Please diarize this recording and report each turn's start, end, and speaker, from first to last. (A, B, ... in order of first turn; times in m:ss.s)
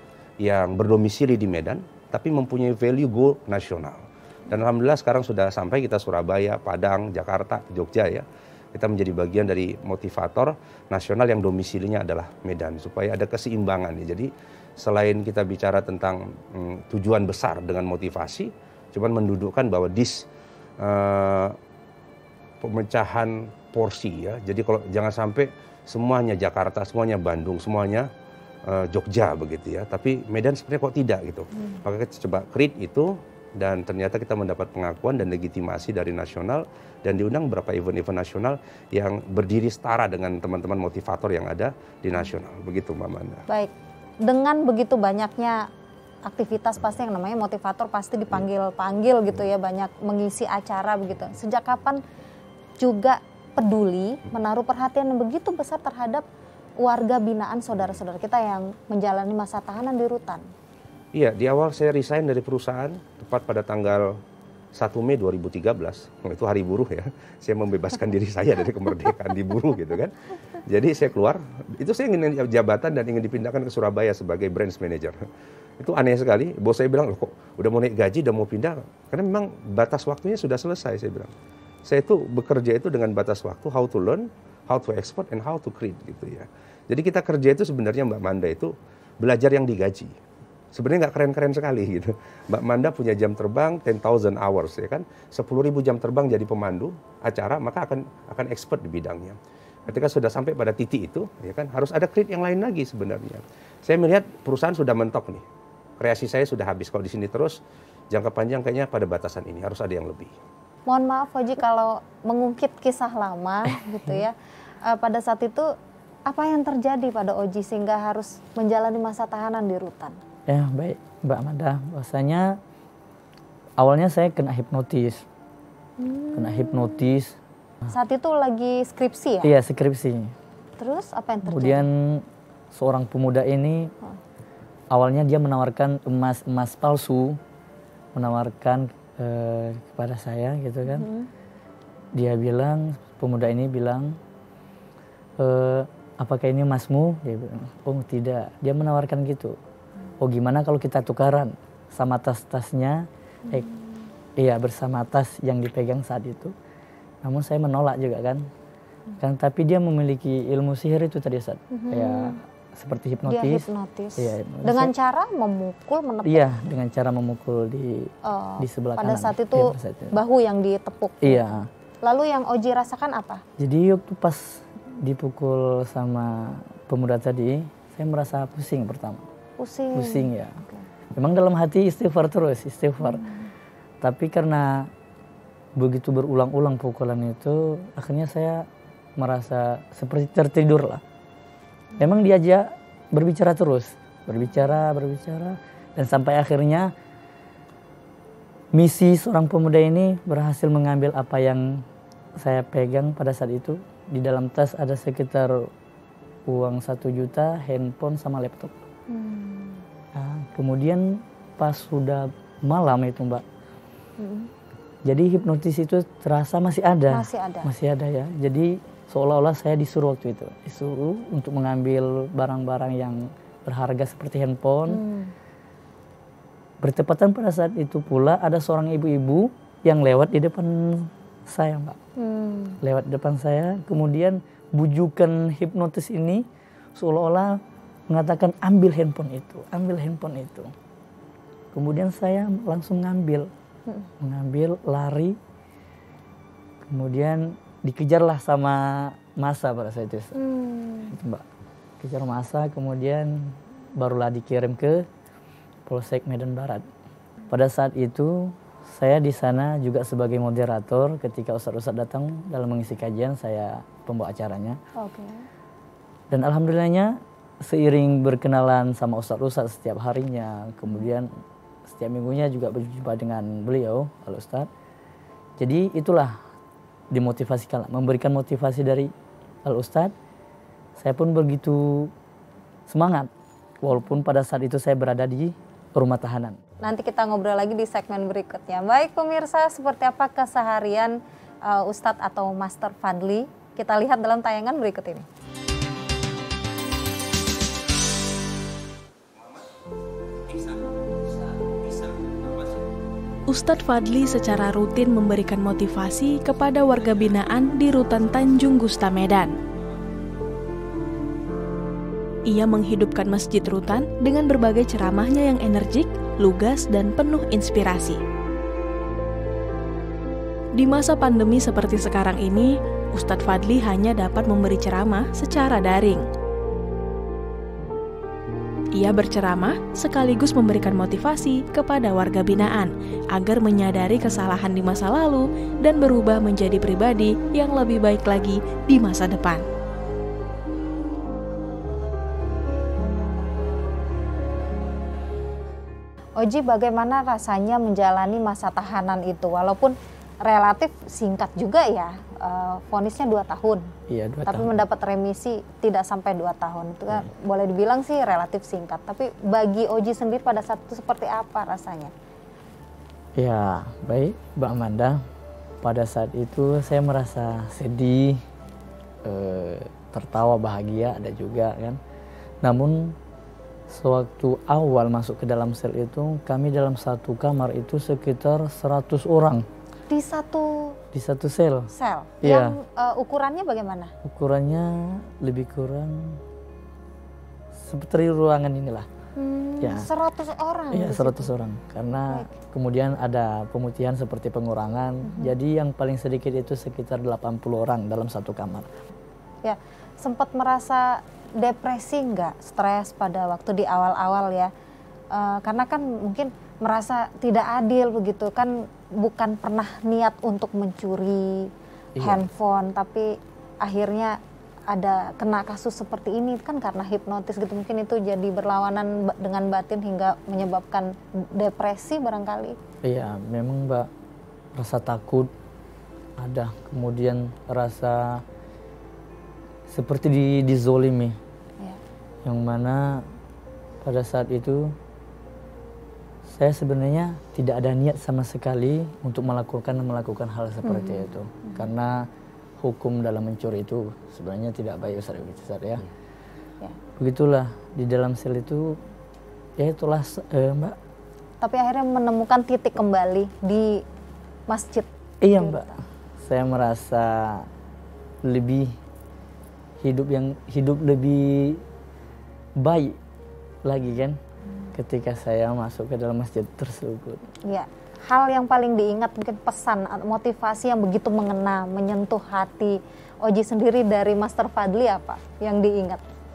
0:00.4-0:20.3 A
0:20.8-0:21.6 A
0:22.6-0:28.1 A
0:28.6-0:43.4 A
0:43.5-0:45.7 B
0:46.2-0:52.0 B
0:52.8-0:56.2 B
0:56.8-1:00.5 B
1:01.1-1:04.2 A
1:04.7-1:15.2 A
1:15.8-1:21.3 A
1:21.8-1:30.2 A
1:30.7-1:45.4 A
1:46.0-1:47.6 A
1:48.1-1:50.3 A
1:50.9-1:55.7 B
1:53.7-1:54.2 C
1:56.2-2:00.2 B
2:00.5-2:02.6 C
2:03.8-2:05.2 C
2:06.0-2:07.0 B
2:06.3-2:07.4 C
2:07.9-2:09.5 B
2:09.4-2:10.3 C
2:10.8-2:11.8 B
2:11.4-2:13.9 C
2:14.9-2:17.4 C
2:18.1-2:21.1 C
2:20.8-2:21.3 B
2:22.1-2:24.2 C
2:25.4-2:29.6 C
2:30.2-2:33.7 C
2:33.5-2:34.1 B
2:34.4-2:36.5 C
2:37.2-2:38.5 C
2:39.2-2:43.6 C
2:41.7-2:42.4 B
2:43.3-2:46.5 B
2:44.2-2:44.9 C
2:46.2-2:50.2 C
2:48.2-2:51.4 B
2:51.2-2:51.7 C
2:52.0-2:53.4 B
2:53.6-2:59.2 C
2:59.6-3:00.8 B
2:59.9-3:00.6 C
3:01.1-3:03.2 C
3:03.0-3:03.5 B
3:04.0-3:04.9 C
3:05.8-3:11.0 C
3:12.0-3:16.9 C
3:18.7-3:21.8 C
3:22.4-3:25.7 C
3:26.5-3:28.8 C
3:29.1-3:29.8 B
3:30.1-3:33.4 C
3:34.2-3:34.5 B
3:35.0-3:45.0 C
3:37.1-3:37.7 B
3:44.9-3:45.3 B
3:46.8-3:52.0 C
3:52.2-3:52.8 B
3:52.8-4:00.7 C
4:01.7-4:03.5 C
4:04.2-4:05.4 C
4:06.9-4:10.3 C
4:10.4-4:11.1 B
4:11.1-4:11.4 C
4:12.0-4:15.0 C
4:15.9-4:16.8 C
4:17.5-4:24.8 C
4:25.0-4:25.4 B
4:26.3-4:31.3 C
4:31.9-4:34.7 C
4:35.6-4:36.4 C
4:37.1-4:39.1 C
4:39.6-4:40.1 C
4:41.0-4:42.1 C
4:42.9-4:43.3 C
4:43.8-4:46.6 C
4:46.8-4:55.2 B
5:03.5-5:09.6 D
5:12.4-5:18.2 D
5:20.8-5:26.2 D
5:28.9-5:39.6 D
5:46.4-5:53.9 B
5:54.1-5:54.7 C
5:54.4-6:02.1 B
6:03.4-6:05.2 C
6:05.8-6:08.4 C
6:09.2-6:12.0 C
6:12.6-6:13.2 C
6:13.9-6:19.6 C
6:20.1-6:21.0 B
6:21.1-6:21.9 C
6:21.9-6:24.1 B
6:22.4-6:22.8 C
6:24.2-6:26.4 C
6:27.8-6:29.1 C
6:29.4-6:31.5 B
6:29.8-6:30.1 C
6:30.9-6:38.9 C
6:35.2-6:35.5 B
6:39.6-6:44.7 B
6:45.3-7:02.8 B
6:52.2-6:52.5 C
7:03.0-7:04.1 C
7:04.7-7:05.5 C
7:06.4-7:08.4 C
7:09.9-7:11.4 C
7:12.4-7:13.2 C
7:14.0-7:14.9 C
7:16.5-7:22.3 C
7:20.8-7:21.9 B
7:22.8-7:26.0 C
7:27.2-7:29.0 C
7:29.8-7:31.0 C
7:31.6-7:34.0 B
7:34.7-7:35.9 B
7:35.4-7:37.7 C
7:38.4-7:39.0 C
7:40.0-7:41.8 C
7:42.8-7:43.2 C
7:43.8-7:44.4 C
7:44.9-7:47.4 C
7:47.7-7:56.2 B